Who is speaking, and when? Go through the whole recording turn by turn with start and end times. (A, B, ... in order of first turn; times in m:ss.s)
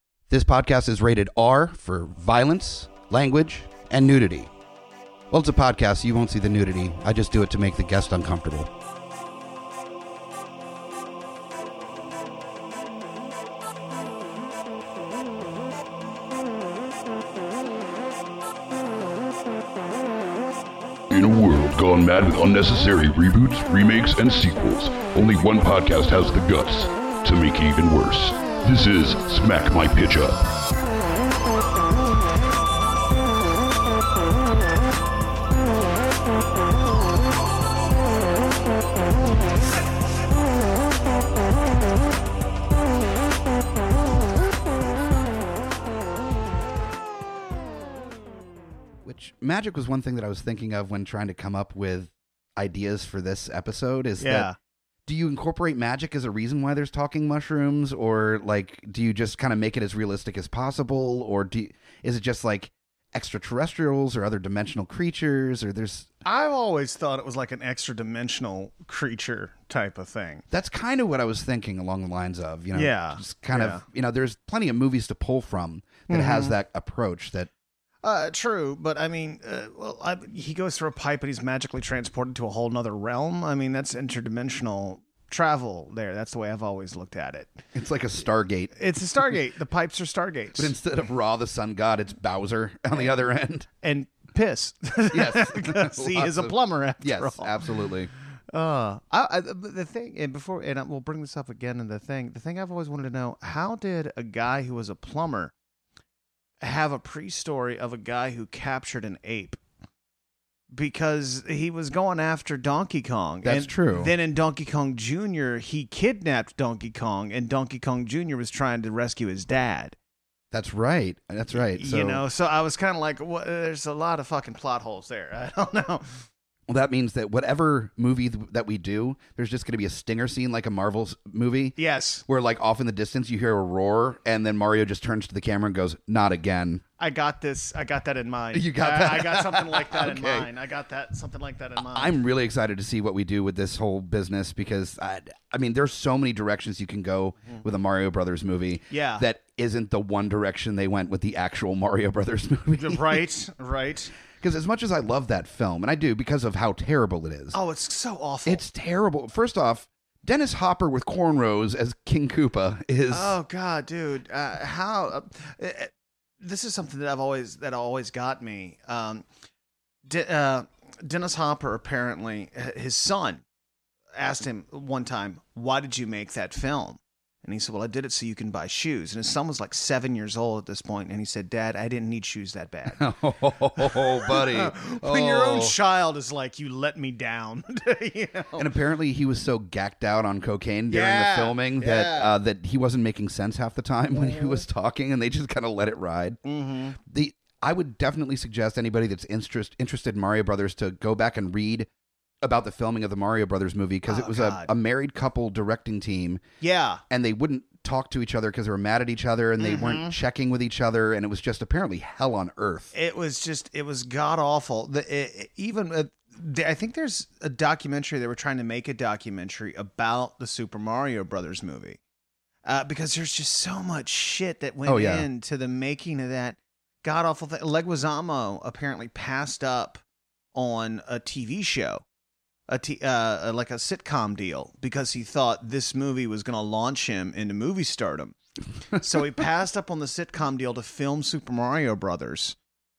0:00.3-0:04.5 A
0:05.3-0:08.7 A
0:21.1-0:30.4 B
0:49.0-0:54.5 A
0:54.2-0:54.6 C
0:55.0-1:06.1 A
1:06.2-1:10.4 C
1:10.5-1:17.5 A
1:12.7-1:13.8 C
1:16.1-1:16.5 C
1:18.0-1:27.6 C
1:27.7-1:28.7 A
1:28.7-1:30.7 C
1:30.6-1:33.7 A
1:33.8-1:37.8 C
1:35.1-1:38.1 A
1:38.5-1:45.5 C
1:46.6-1:49.6 C
1:50.7-2:00.0 C
1:53.4-1:54.1 A
2:00.5-2:02.2 A
2:01.5-2:06.2 C
2:06.7-2:16.8 A
2:11.8-2:12.2 C
2:17.0-2:22.1 C
2:18.5-2:20.5 A
2:21.8-2:33.2 A
2:28.9-2:29.2 C
2:32.8-2:34.1 C
2:34.4-2:37.6 A
2:37.5-2:38.6 C
2:38.4-2:43.4 A
2:43.1-2:49.2 C
2:50.0-2:53.4 C
2:54.1-3:03.0 C
3:03.0-3:05.8 A
3:03.8-3:08.7 C
3:08.6-3:16.4 A
3:10.9-3:12.3 C
3:14.1-3:14.6 C
3:16.4-3:17.0 C
3:17.0-3:21.9 A
3:22.4-3:26.4 A
3:24.0-3:24.7 C
3:26.6-3:27.0 C
3:27.1-3:32.9 A
3:29.6-3:30.2 C
3:32.9-3:42.0 C
3:42.6-3:50.0 C
3:44.8-3:45.2 A
3:50.5-3:52.0 C
3:52.7-3:58.4 C
3:58.9-4:02.6 C